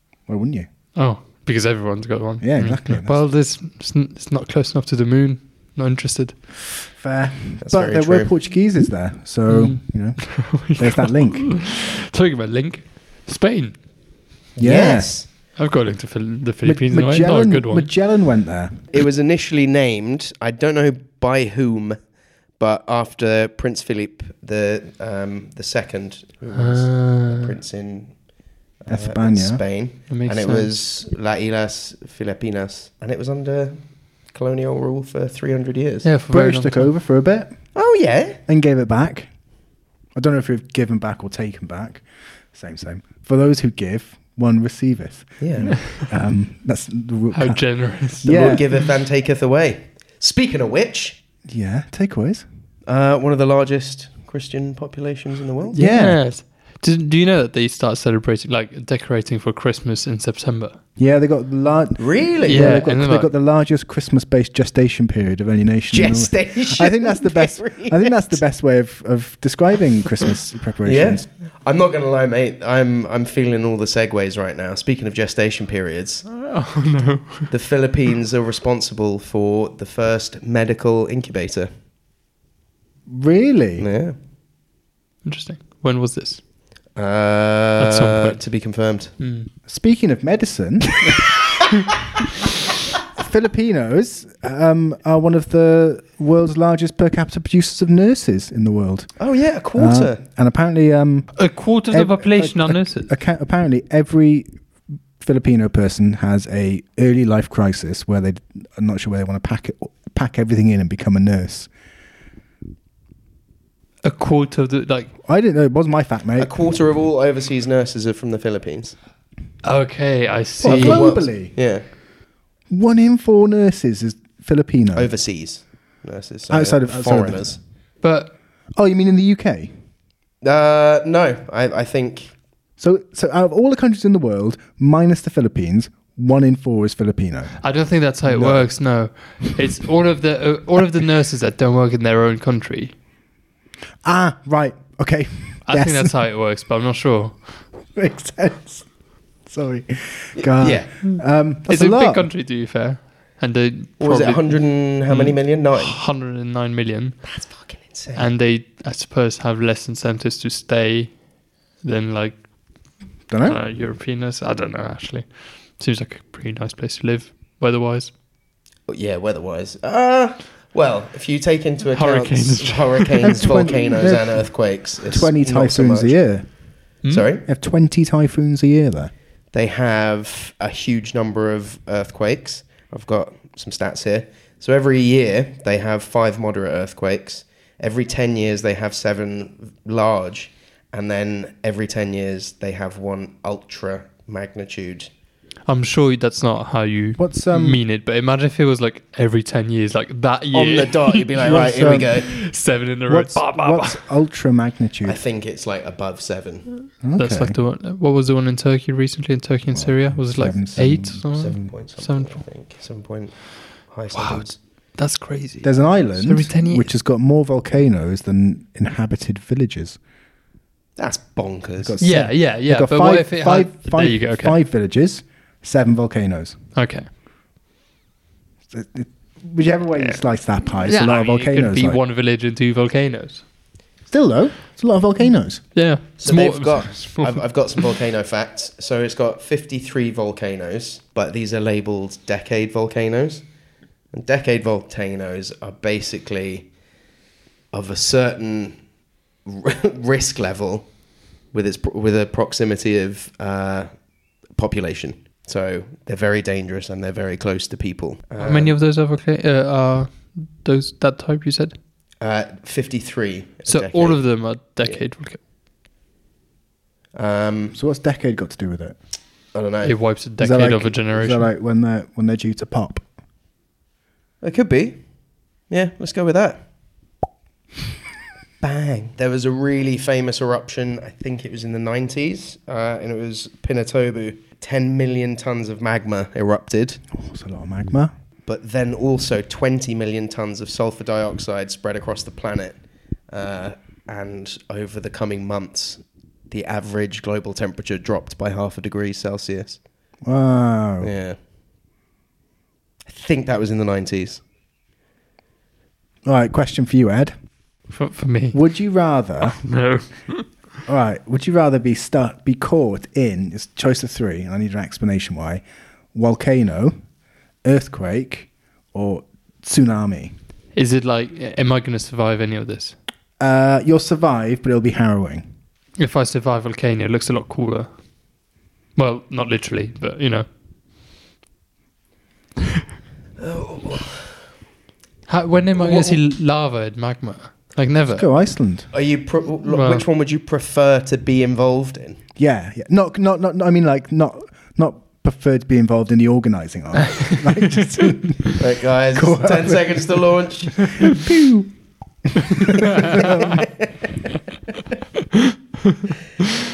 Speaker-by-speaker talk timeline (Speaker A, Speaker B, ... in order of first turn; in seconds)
Speaker A: 0.2-0.7, 2.4-3.2, 7.0-11.6, 14.6-15.2, 16.6-18.8, 28.9-29.6, 36.3-37.7, 38.5-39.3, 40.1-48.6, 51.5-52.5, 55.7-56.2, 61.0-71.3, 83.1-83.9, 89.7-91.2, 93.2-99.2, 99.7-104.5, 105.2-111.7, 115.2-116.5, 120.6-121.6, 122.7-125.1, 126.5-127.5, 128.8-129.7, 132.8-137.6, 138.2-138.8, 144.0-146.2, 147.9-148.9, 149.4-152.3, 163.3-163.6, 173.2-176.5, 177.4-179.1, 197.2-197.8, 201.4-202.2, 203.1-205.2, 207.0-207.6, 209.7-211.2, 215.6-220.0, 221.8-226.6, 228.7-232.0, 234.1-235.7, 267.7-269.0, 270.4-273.0, 287.1-288.1, 300.2-301.1, 306.2-307.3, 308.5-309.6, 310.9-316.9, 317.6-320.4, 323.4-325.5, 338.1-338.9, 342.4-350.2, 350.9-351.8, 352.3-353.6
Speaker B: 0.9-6.5, 9.5-13.9, 15.6-17.9, 26.6-27.6, 30.1-30.7, 36.0-36.9, 47.3-48.8, 55.8-60.8, 62.5-63.3, 76.3-77.5, 85.2-86.4, 87.8-88.4, 89.2-89.5, 101.4-103.1, 114.0-115.1, 119.6-121.2, 128.0-128.3, 137.6-142.9, 145.7-147.6, 151.7-157.4, 158.2-161.2, 161.8-162.9, 163.4-168.1, 171.9-173.3, 195.7-204.0, 207.1-212.4, 214.2-216.9, 222.0-224.6, 226.8-227.1, 230.0-233.4, 235.8-237.9, 258.4-261.8, 263.7-265.4, 269.8-271.5, 307.9-308.6, 309.4-310.5, 320.8-323.0, 326.0-327.9, 329.0-330.5, 335.3-338.3, 339.7-340.0, 347.1-348.5, 355.9-356.4
Speaker C: 7.6-8.3, 14.6-15.3, 18.9-36.1, 37.8-38.4, 45.4-45.9, 48.3-51.2, 52.9-55.8, 62.0-62.8, 65.9-68.4, 70.8-76.3, 77.5-81.7, 83.8-84.2, 87.0-89.1, 99.2-100.2, 116.4-119.0, 120.6-121.8, 125.0-127.6, 130.4-132.3, 150.4-150.9, 154.0-156.0, 157.3-158.3, 168.9-176.2, 177.1-177.4, 179.5-195.1, 200.5-202.4, 205.0-206.7, 211.3-214.6, 221.0-222.0, 236.2-243.5, 244.1-246.7, 247.7-248.8, 249.4-250.9, 251.5-258.8, 262.2-265.0, 267.1-267.8, 269.5-269.9, 274.4-275.1, 275.7-276.6, 278.6-287.0, 288.5-299.8, 301.0-301.4, 303.1-304.4, 333.4-334.3, 335.8-336.2, 338.9-342.2, 348.6-350.9, 353.2-354.1